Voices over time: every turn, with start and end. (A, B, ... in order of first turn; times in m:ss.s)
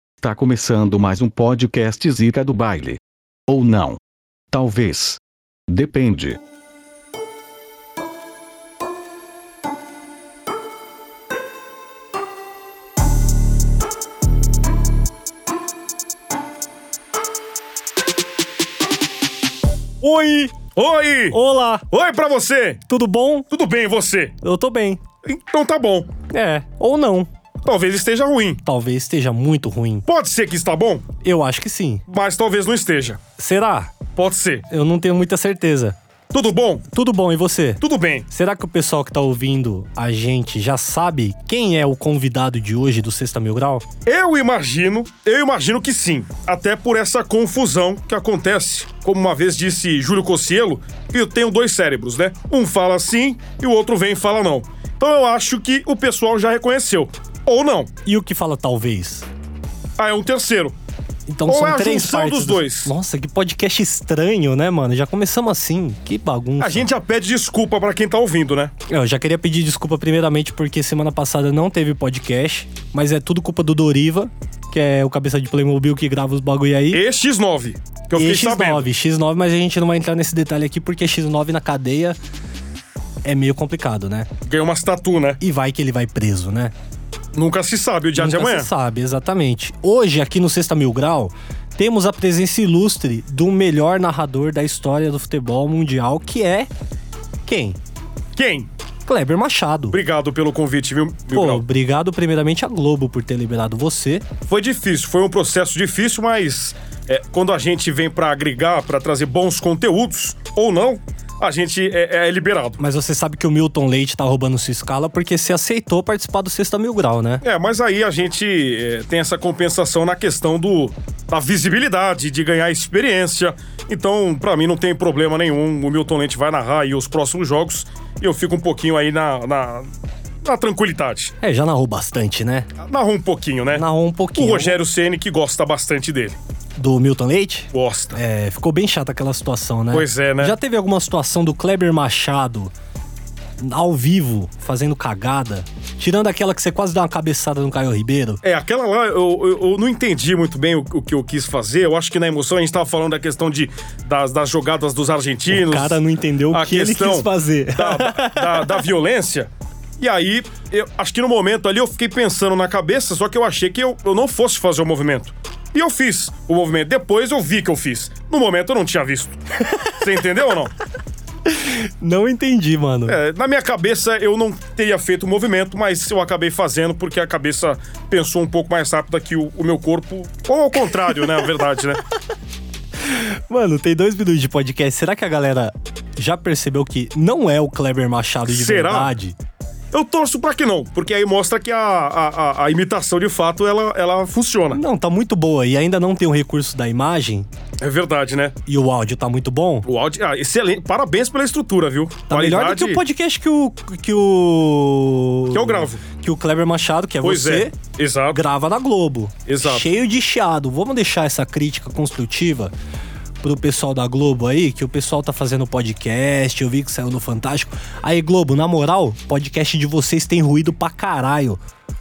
0:00.2-0:04.0 A
0:04.5-0:06.4 A
0:20.0-0:20.5 B
0:20.8-0:21.4 C
0:21.3-0:21.8 B
0:21.9-0:22.8 C
0:22.9-0:23.5 B
0:23.5-0:24.4 C
0:24.4-0:25.0 B
0:25.2-0:26.1 C
0:26.3-0:27.3 B
0:27.6-0:28.6 C
0:28.6-0:30.0 B
0:30.0-0:31.0 C
0:31.2-0:32.0 B
0:32.1-0:33.2 C
0:33.4-0:33.9 B
0:34.2-0:34.6 C
0:34.7-0:36.0 B
0:36.3-0:36.8 C
0:36.9-0:43.8 B
0:37.8-0:38.3 C
0:44.0-0:57.9 C
0:58.0-0:59.3 B
1:00.0-1:00.8 C
1:01.3-1:06.9 B
1:01.5-1:02.9 C
1:06.6-1:08.7 C
1:08.9-1:17.0 B
1:16.9-1:18.9 C
1:18.2-1:22.2 B
1:23.2-1:24.3 B
1:24.4-1:25.4 C
1:25.4-1:26.7 B
1:27.3-1:28.7 C
1:28.2-1:36.7 B
1:37.4-1:37.8 B
1:38.3-1:38.7 C
1:39.0-1:40.0 B
1:39.9-1:41.6 C
1:41.3-1:44.2 B
1:44.4-1:52.8 C
1:52.8-1:57.4 B
1:57.4-2:09.9 C
2:10.4-2:11.3 C
2:11.4-2:12.7 B
2:12.8-2:16.4 C
2:13.7-2:14.8 B
2:16.8-2:22.7 B
2:17.7-2:18.2 C
2:19.9-2:20.6 C
2:23.6-2:28.4 B
2:28.4-2:49.4 C
2:35.5-2:38.8 B
2:49.6-2:49.9 B
2:50.0-2:50.7 C
2:51.5-2:53.2 B
2:53.1-3:02.0 C
3:03.0-3:09.3 B
3:08.4-3:09.2 C
3:09.9-3:14.8 C
3:14.7-3:17.5 B
3:17.8-3:18.6 C
3:18.7-3:19.8 B
3:19.8-3:23.0 C
3:22.3-3:27.7 B
3:25.5-3:26.0 C
3:27.2-3:28.4 C
3:28.3-3:32.7 B
3:29.5-3:29.9 C
3:33.4-3:41.6 B